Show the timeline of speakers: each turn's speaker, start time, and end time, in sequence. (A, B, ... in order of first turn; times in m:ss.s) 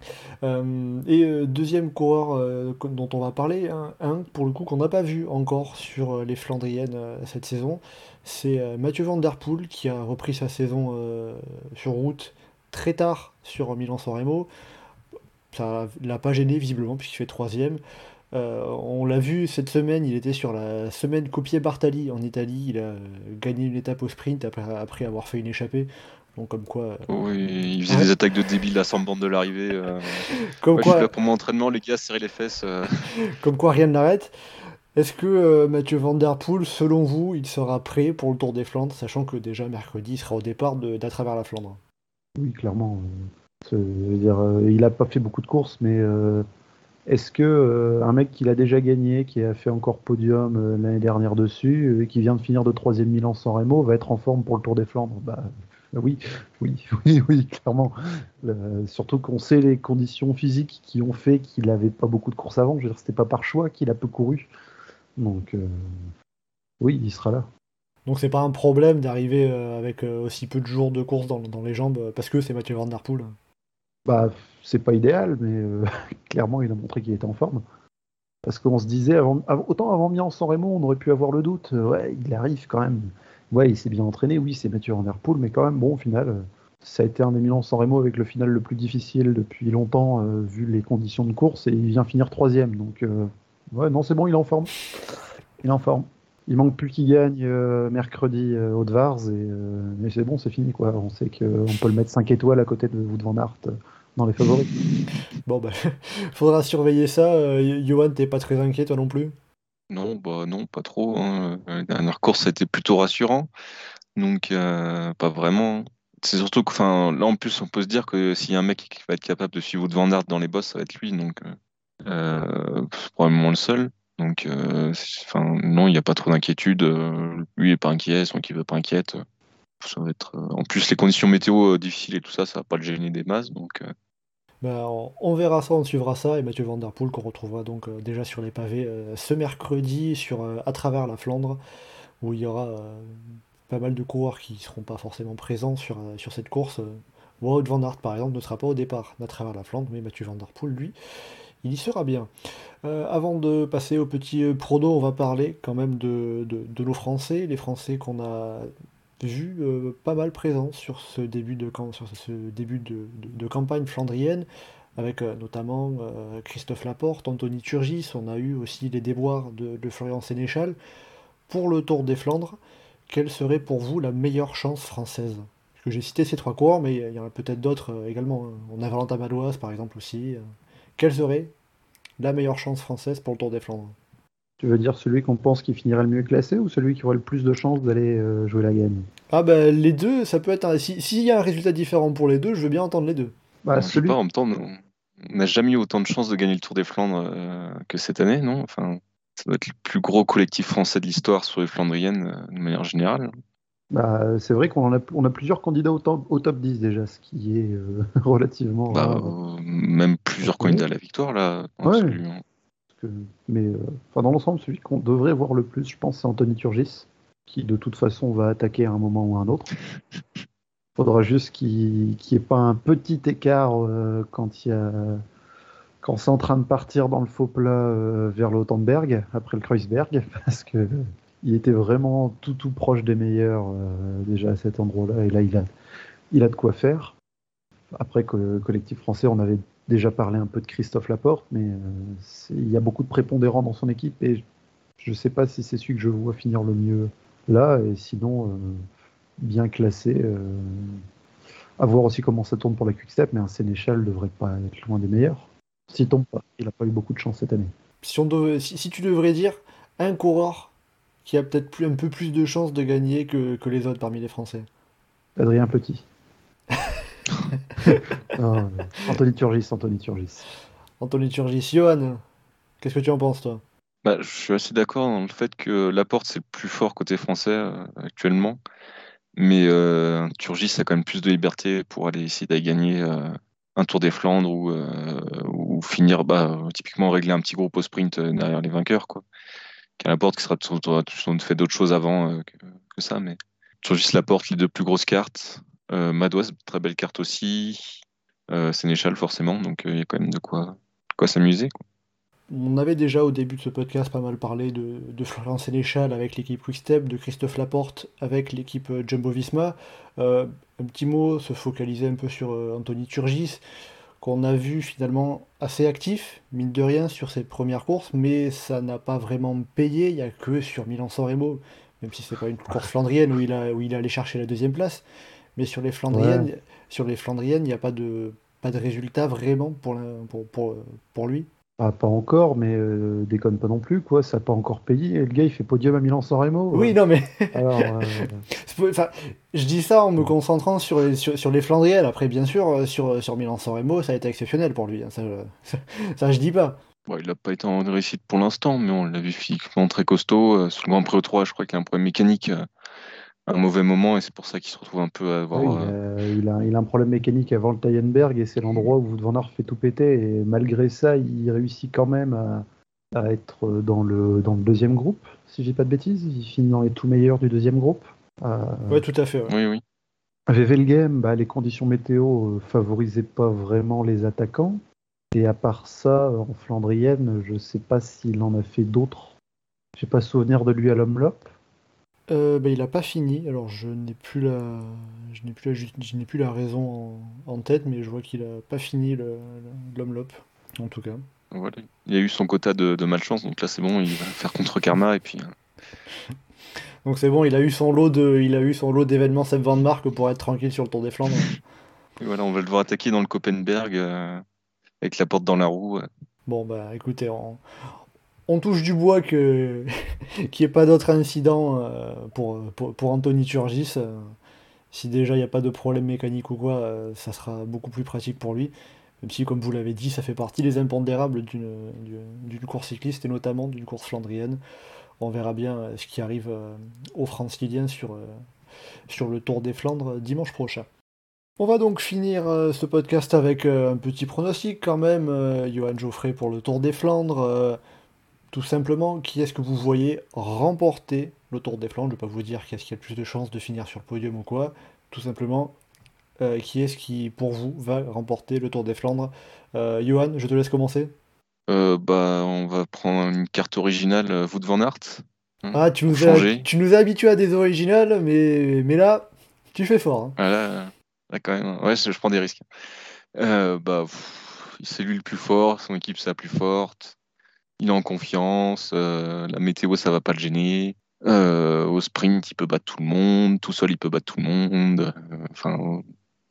0:00.4-0:14.5 A
0:15.5-0:17.8 A
0:18.3-0:27.1 A
0:27.1-0:33.1 B
0:30.3-0:31.1 A
0:33.3-0:34.3 A
0:34.9-0:41.8 A
0:42.4-0:46.4 C
0:47.1-1:04.5 C
1:05.2-1:06.1 C
1:06.8-1:07.5 C
1:08.1-1:13.3 A
1:14.1-1:17.6 C
1:18.5-1:34.8 C
1:35.6-1:44.7 C
1:45.5-1:49.4 A
1:49.9-1:53.5 B
1:54.2-2:09.2 B
2:09.8-2:13.9 B
2:14.6-2:21.6 A
2:22.2-2:30.9 A
2:31.6-2:32.3 A
2:32.8-2:44.5 A
2:45.0-2:50.8 A
2:51.5-2:52.6 A
2:53.1-3:00.4 A
3:01.0-3:01.5 A
3:02.2-3:04.0 A
3:04.6-3:09.1 C
3:09.3-3:13.3 A
3:13.6-3:14.2 C
3:13.8-3:23.3 B
3:23.9-3:29.3 C
3:28.9-3:32.4 B
3:30.4-3:30.9 C
3:31.8-3:32.2 C
3:32.9-3:39.7 C
3:41.0-3:45.2 C
3:46.0-3:55.7 C
3:56.3-3:57.2 C
3:57.9-4:04.4 C
4:05.0-4:08.9 C
4:09.4-4:11.0 C
4:11.8-4:17.7 C
4:18.0-4:20.7 A
4:21.2-4:24.7 A
4:25.4-4:26.0 C
4:28.3-4:30.4 C
4:31.0-4:32.2 A
4:32.8-4:33.6 A
4:34.0-4:38.6 B
4:39.4-4:49.2 B
4:50.0-5:01.8 B
5:02.5-5:13.6 A
5:14.2-5:25.0 A
5:25.6-5:31.5 A
5:26.1-5:26.5 C
5:31.8-5:37.0 C
5:36.7-5:38.0 A
5:37.5-5:38.4 C
5:38.6-5:46.8 A
5:47.1-5:52.7 B
5:53.5-5:56.0 B
5:55.5-6:09.0 C
6:08.9-6:09.5 A
6:09.5-6:09.8 B
6:10.5-6:14.8 C
6:15.3-6:19.4 C
6:20.0-6:21.5 C
6:22.3-6:31.2 A
6:31.5-6:35.6 B
6:37.0-6:41.6 A
6:42.2-6:44.4 B
6:45.0-6:46.1 B
6:46.5-6:47.9 A
6:48.5-6:49.9 A
6:50.5-6:54.4 A
6:54.9-7:04.6 A
7:05.2-7:08.4 A
7:09.1-7:10.9 A
7:11.6-7:17.8 A
7:18.5-7:25.8 A
7:26.4-7:31.1 A
7:31.7-7:36.6 B
7:35.7-7:40.4 A
7:40.4-7:42.6 B
7:43.4-7:47.2 B
7:47.8-7:56.0 B